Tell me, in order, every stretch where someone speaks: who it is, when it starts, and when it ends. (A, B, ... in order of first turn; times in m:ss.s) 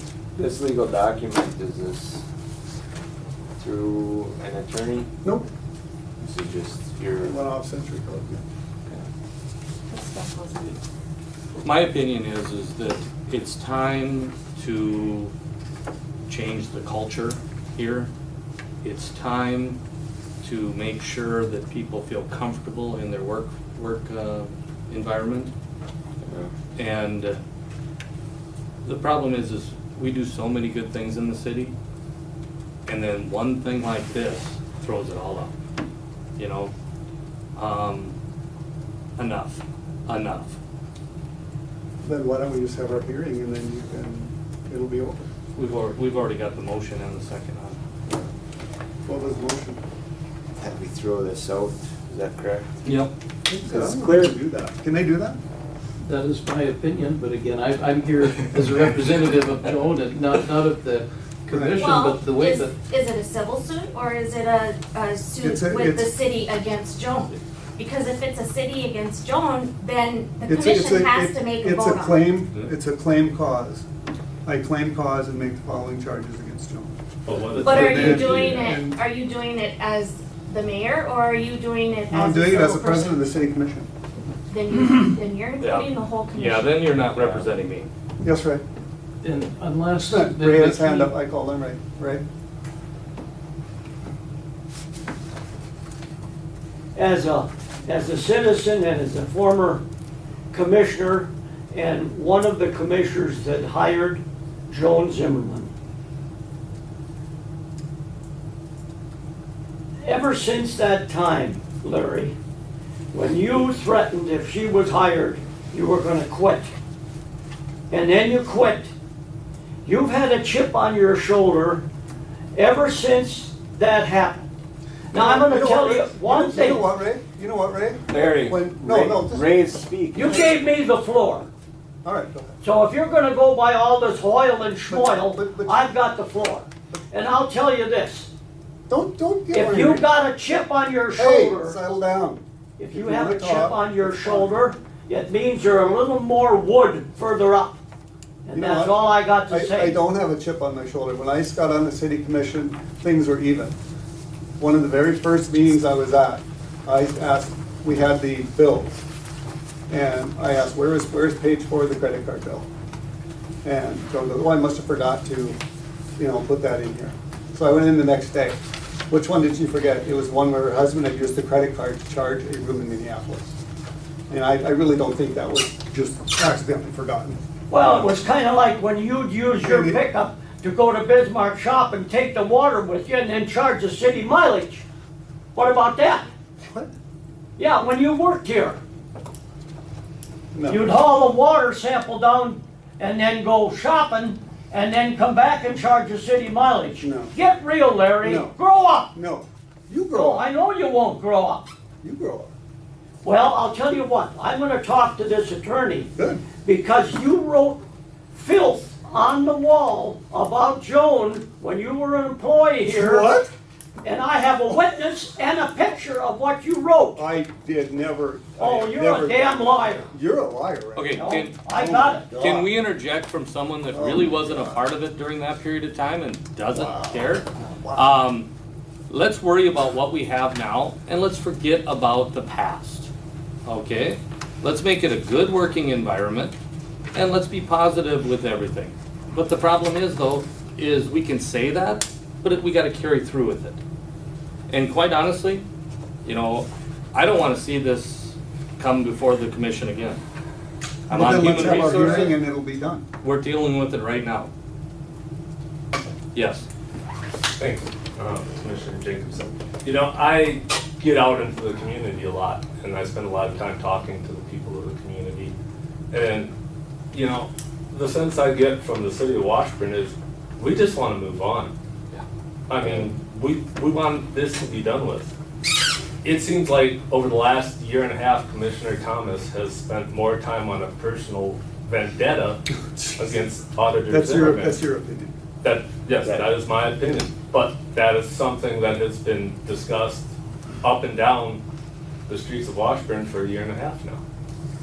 0:00.4-0:02.2 A
0:03.6-0:05.1 A
0:06.2-0:07.4 A
0:07.2-0:08.4 B
0:09.9-0:10.6 C
0:11.6-0:15.3 D
0:16.3-0:18.1 D
0:18.8-0:19.8 D
0:20.4-0:25.5 D
0:26.2-0:26.5 A
0:26.8-0:27.4 D
0:28.8-0:31.7 D
0:32.9-0:35.5 D
0:36.4-0:36.7 D
0:37.6-0:38.2 D
0:39.2-0:40.6 D
0:42.0-0:45.2 B
0:45.6-0:47.8 D
0:49.1-0:49.8 B
0:50.6-0:52.8 A
0:52.8-0:53.1 D
0:53.5-0:55.4 B
0:53.6-0:54.4 A
0:56.0-1:02.8 E
1:01.5-1:01.8 B
1:01.7-1:12.3 C
1:05.4-1:06.1 B
1:10.5-1:13.9 B
1:14.4-1:16.9 B
1:17.3-1:18.4 F
1:17.6-1:23.2 C
1:17.7-1:19.0 B
1:22.1-1:23.9 B
1:24.5-1:26.8 C
1:25.6-1:27.9 D
1:28.2-1:28.6 B
1:29.2-1:31.1 E
1:30.1-1:32.2 B
1:37.0-1:39.8 G
1:40.5-1:45.7 G
1:50.0-1:52.4 G
1:53.1-1:56.7 G
1:57.9-1:58.9 G
1:59.8-2:01.9 G
2:02.5-2:04.5 G
2:05.1-2:06.8 G
2:05.1-2:09.5 B
2:08.1-2:10.4 A
2:10.1-2:11.5 G
2:12.0-2:12.6 B
2:12.6-2:18.3 G
2:14.9-2:15.9 B
2:18.9-2:20.1 B
2:19.5-2:22.0 G
2:21.2-2:24.6 B
2:22.8-2:27.8 G
2:28.5-2:30.0 G
2:28.5-2:33.8 B
2:34.6-2:39.0 B
2:39.9-2:42.7 B
2:43.6-2:45.6 B
2:46.2-2:48.6 B
2:49.1-2:53.6 B
2:54.3-2:58.2 B
2:57.7-3:04.8 G
2:59.6-3:00.0 B
3:05.6-3:06.3 G
3:07.6-3:08.8 G
3:10.5-3:10.9 B
3:10.7-3:19.1 G
3:17.0-3:17.4 B
3:18.2-3:18.6 B
3:19.1-3:20.5 B
3:20.1-3:21.6 G
3:22.0-3:22.5 B
3:23.2-3:26.1 G
3:26.2-3:26.4 B
3:26.6-3:33.3 G
3:32.8-3:33.5 B
3:34.0-3:37.3 G
3:37.2-3:42.7 B
3:38.6-3:40.1 G
3:41.0-3:41.6 D
3:41.1-3:42.3 G
3:42.2-3:48.5 D
3:43.9-3:44.8 B
3:46.7-3:48.1 B
3:49.1-3:53.1 D
3:53.7-3:56.5 D
3:57.1-4:03.8 D
4:04.7-4:05.6 D
4:06.2-4:10.2 D
4:11.1-4:13.0 B
4:11.1-4:12.4 D
4:13.2-4:14.5 D
4:16.3-4:16.6 D
4:17.6-4:25.6 F
4:26.1-4:26.5 F
4:27.1-4:31.7 F
4:32.7-4:35.3 F
4:36.2-4:42.6 F
4:43.0-4:43.3 B
4:43.2-4:44.8 F
4:44.1-4:45.3 B
4:45.6-4:51.6 F
4:46.2-4:46.6 A
4:52.3-4:54.2 F